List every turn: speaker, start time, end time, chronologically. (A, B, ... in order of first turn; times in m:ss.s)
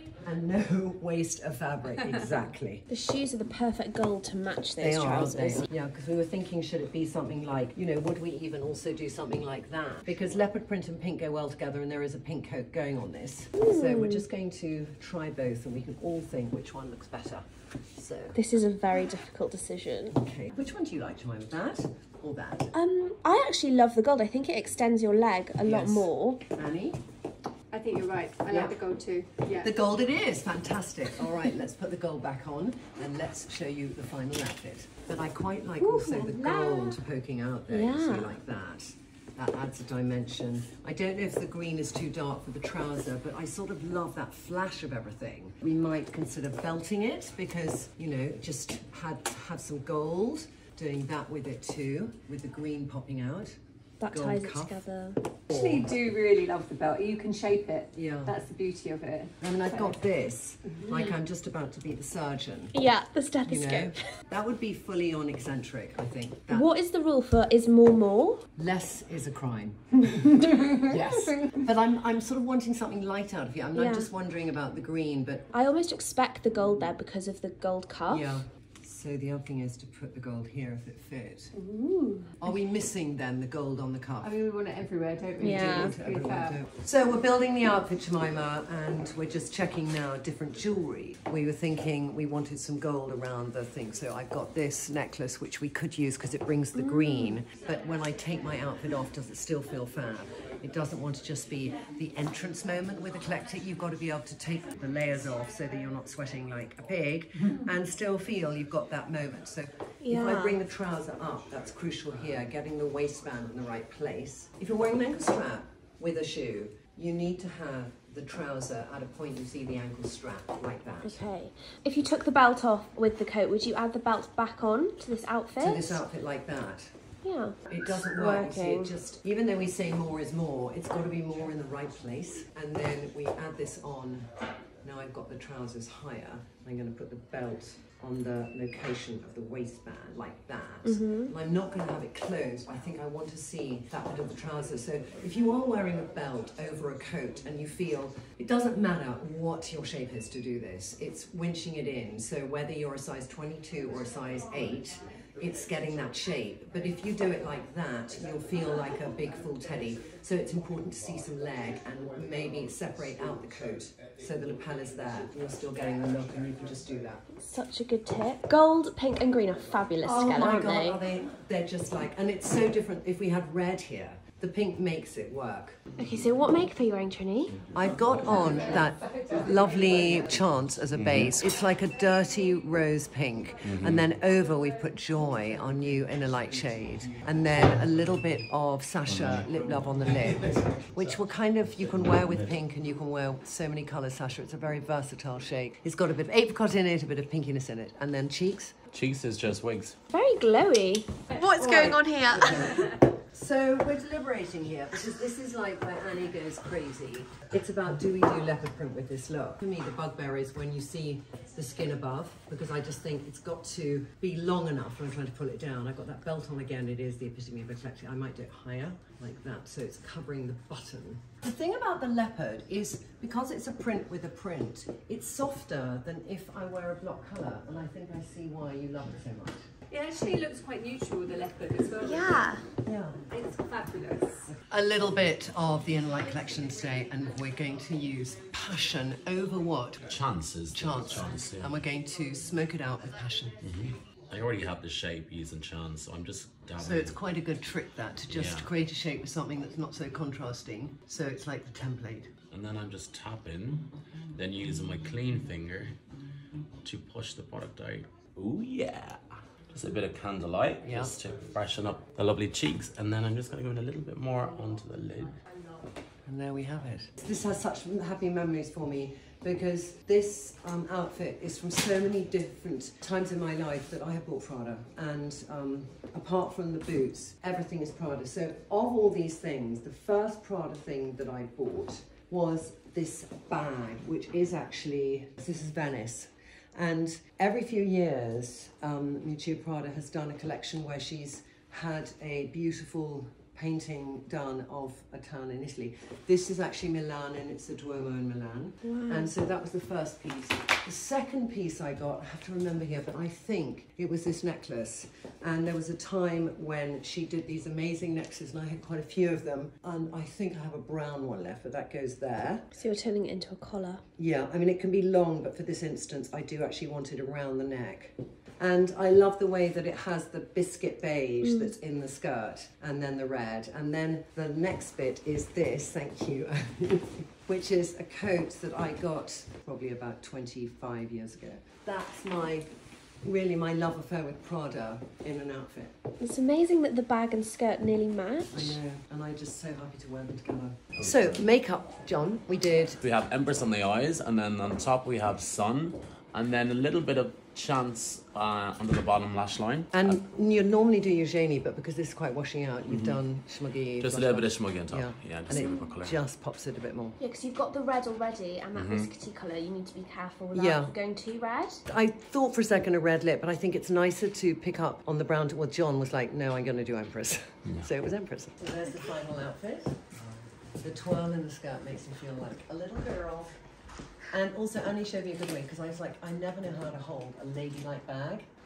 0:00.2-0:02.9 A
0:02.9-0:05.7 B
0:04.8-0:17.4 A
0:13.6-0:14.3 B
0:18.0-0:18.4 A
0:18.4-0:20.2 B
0:20.1-0:22.7 A
0:22.7-0:26.4 B
0:25.6-0:27.0 A
0:27.7-0:29.7 C
0:28.5-0:28.8 A
0:29.6-0:53.6 A
0:35.8-0:37.0 C
0:37.7-0:38.4 B
0:54.0-0:55.2 B
0:54.1-0:54.8 A
0:55.5-0:55.9 A
0:55.5-1:00.0 C
0:58.0-0:58.4 A
0:59.4-1:02.7 A
1:02.7-1:04.0 B
1:03.5-1:06.7 A
1:06.5-1:08.4 B
1:08.6-1:15.5 A
1:13.7-1:14.1 B
1:15.5-1:18.4 B
1:18.1-1:21.5 A
1:21.6-1:22.3 B
1:22.4-1:24.4 A
1:24.2-1:26.6 C
1:25.4-1:26.0 B
1:25.4-2:01.2 A
1:36.8-1:37.4 B
1:50.0-1:50.6 B
2:01.0-2:06.0 B
2:05.6-2:06.9 A
2:07.2-2:08.9 B
2:07.7-2:14.3 A
2:14.8-2:47.3 A
2:20.8-2:21.3 B
2:47.4-2:51.0 B
2:50.0-2:55.8 A
2:56.0-2:57.6 B
2:57.7-3:18.7 A
3:01.0-3:01.3 D
3:03.6-3:04.1 D
3:18.9-3:20.0 D
3:20.1-3:22.8 B
3:21.5-3:49.7 A
3:49.9-3:52.6 C
3:52.0-3:52.6 B
3:52.8-3:53.2 A
3:53.3-3:54.5 C
3:54.5-4:00.1 A
4:00.1-4:01.8 D
4:00.7-4:03.6 A
4:03.6-4:07.2 D
4:06.8-4:12.3 A
4:08.3-4:08.7 D
4:12.5-4:16.0 D
4:16.8-4:19.2 D
4:19.7-4:25.4 D
4:20.8-4:21.2 A
4:26.2-5:12.7 A
4:58.8-4:59.3 B
5:12.8-5:14.0 B
5:14.2-5:32.7 A
5:21.4-5:21.7 B
5:33.2-5:35.9 A
5:36.2-5:38.8 B
5:38.5-5:43.0 A
5:41.0-5:41.4 D
5:43.0-5:50.2 D
5:49.9-5:57.2 A
5:52.9-5:53.2 D
5:54.0-5:56.2 D
5:55.5-5:55.8 B
5:57.2-6:01.8 B
5:58.8-5:59.1 D
6:00.5-6:00.9 A
6:01.9-6:10.1 A
6:10.8-6:13.6 A
6:14.3-6:18.5 A